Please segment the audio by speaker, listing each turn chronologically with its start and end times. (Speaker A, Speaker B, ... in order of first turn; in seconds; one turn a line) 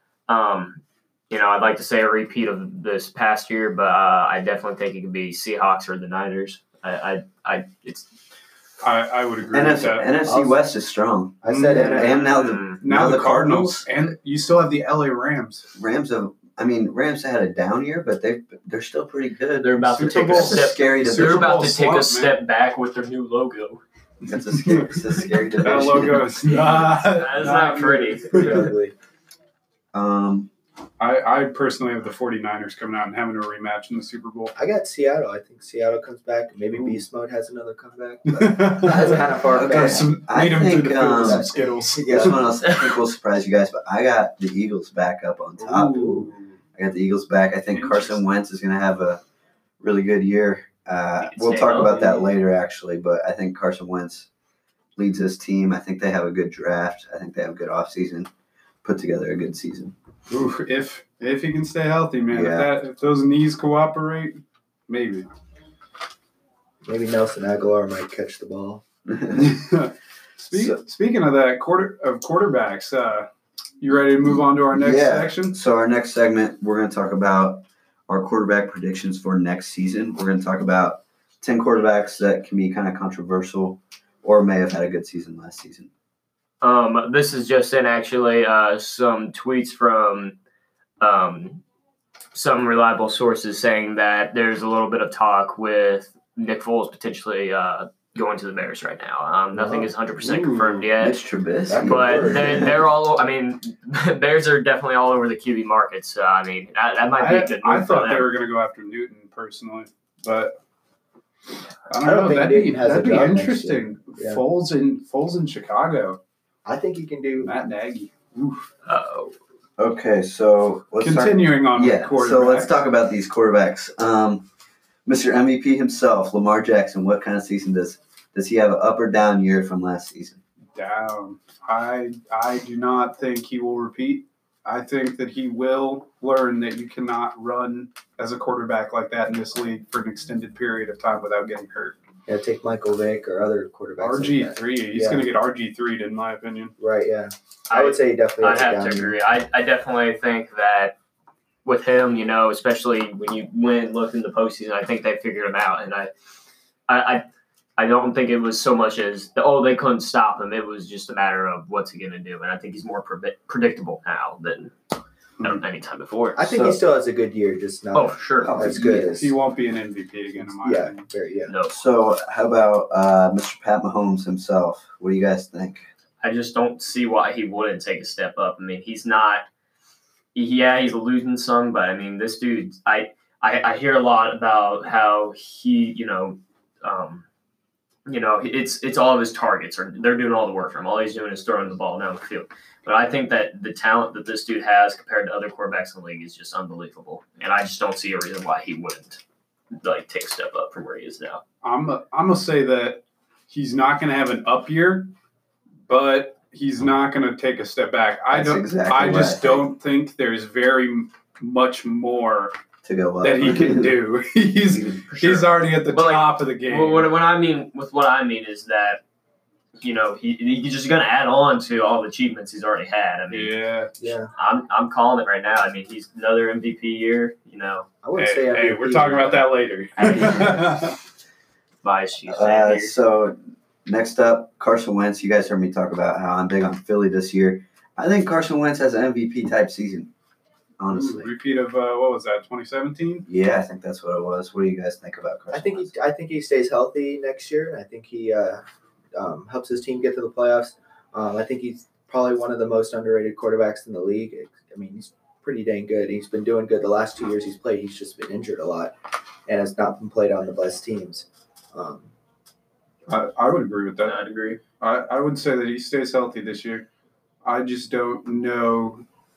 Speaker A: 0.3-8.1
Speaker B: 8.8-10.1
Speaker C: 9.5-14.0
Speaker D: 10.2-10.6
Speaker D: 11.4-12.3
Speaker B: 11.4-12.2
Speaker A: 12.1-12.8
Speaker B: 12.8-15.7
Speaker C: 15.8-21.8
Speaker A: 19.6-23.8
Speaker B: 19.9-22.4
Speaker C: 24.2-26.6
Speaker B: 24.3-28.7
Speaker A: 26.5-28.7
Speaker D: 28.3-28.9
Speaker C: 29.9-30.5
Speaker B: 31.0-34.5
Speaker D: 34.6-40.2
Speaker B: 36.7-37.0
Speaker B: 38.3-42.4
Speaker C: 38.9-46.2
Speaker D: 41.2-42.4
Speaker B: 45.6-46.5
Speaker C: 46.8-49.2
Speaker B: 47.7-48.2
Speaker C: 49.8-54.3
Speaker A: 51.2-52.3
Speaker C: 55.0-58.3
Speaker C: 58.8-60.0
Speaker B: 60.3-65.3
Speaker C: 62.3-62.7
Speaker D: 66.8-68.8
Speaker C: 69.1-69.6
Speaker B: 69.3-73.3
Speaker C: 70.5-70.8
Speaker B: 73.8-75.5
Speaker C: 74.3-85.9
Speaker A: 86.6-90.4
Speaker A: 91.0-91.6
Speaker A: 92.3-101.2
Speaker D: 99.5-99.9
Speaker B: 100.2-100.8
Speaker C: 101.0-102.8
Speaker D: 101.7-102.8
Speaker A: 101.8-108.3
Speaker B: 107.2-110.6
Speaker B: 111.9-116.2
Speaker D: 112.0-114.4
Speaker D: 116.7-117.5
Speaker B: 117.4-118.7
Speaker A: 118.9-119.3
Speaker C: 119.8-124.5
Speaker B: 121.0-122.8
Speaker C: 125.1-130.4
Speaker B: 130.7-142.0
Speaker D: 142.3-145.2
Speaker B: 144.0-146.8
Speaker D: 146.8-149.2
Speaker A: 147.7-150.9
Speaker A: 151.7-156.1
Speaker A: 156.9-157.3
Speaker A: 157.8-164.7
Speaker A: 165.4-166.5
Speaker D: 166.4-169.4
Speaker C: 166.5-166.8
Speaker A: 167.9-168.9
Speaker C: 168.4-169.1
Speaker B: 168.9-171.1
Speaker D: 170.3-171.5
Speaker A: 171.5-171.8
Speaker C: 171.7-175.8
Speaker A: 176.2-179.5
Speaker A: 180.3-187.2
Speaker A: 188.1-199.2
Speaker A: 199.7-201.4
Speaker B: 201.6-205.1
Speaker B: 205.9-212.5
Speaker C: 208.3-209.7
Speaker C: 212.8-214.0
Speaker B: 213.2-217.1
Speaker C: 214.7-215.5
Speaker A: 215.9-219.0
Speaker A: 219.8-223.6
Speaker B: 223.3-223.9
Speaker D: 224.0-224.3
Speaker A: 224.3-227.9
Speaker D: 228.0-229.5
Speaker B: 228.2-231.0
Speaker A: 230.0-230.7
Speaker D: 230.2-230.6
Speaker A: 231.8-232.9
Speaker C: 232.3-240.1
Speaker C: 240.8-241.3
Speaker B: 240.9-243.2
Speaker C: 243.3-245.9
Speaker D: 245.5-248.6
Speaker D: 249.2-258.9
Speaker D: 259.5-262.1
Speaker B: 263.1-266.9
Speaker A: 264.0-264.6
Speaker B: 267.4-269.0